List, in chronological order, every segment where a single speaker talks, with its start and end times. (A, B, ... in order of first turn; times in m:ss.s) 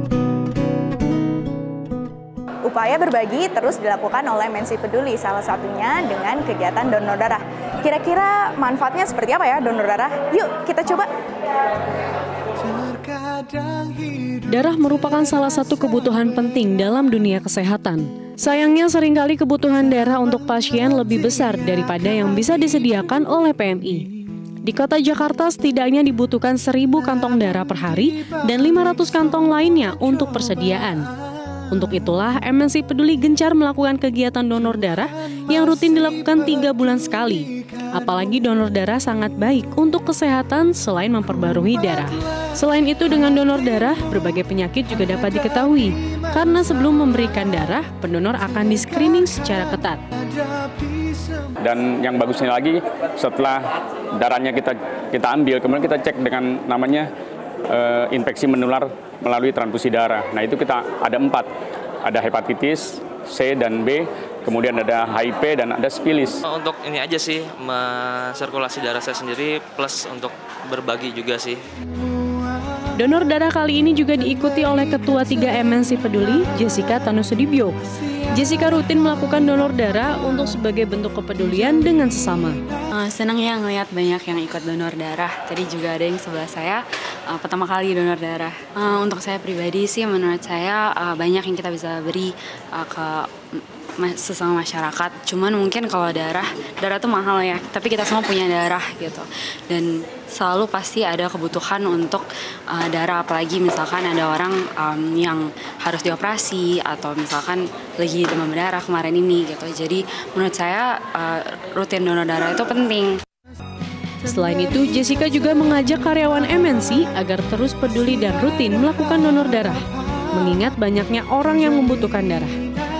0:02.6-0:11.1 A
0:14.4-0:24.1 B
0:24.6-0:31.0 B
0:31.7-0:50.0 B
0:51.6-0:57.1 C
0:57.7-1:01.5 C
1:02.0-1:06.4 C
1:06.4-1:11.6 D
1:12.9-1:17.8 B
1:18.3-1:22.6 B
1:22.9-1:33.3 E
1:34.0-1:53.2 E
1:54.2-2:02.6 B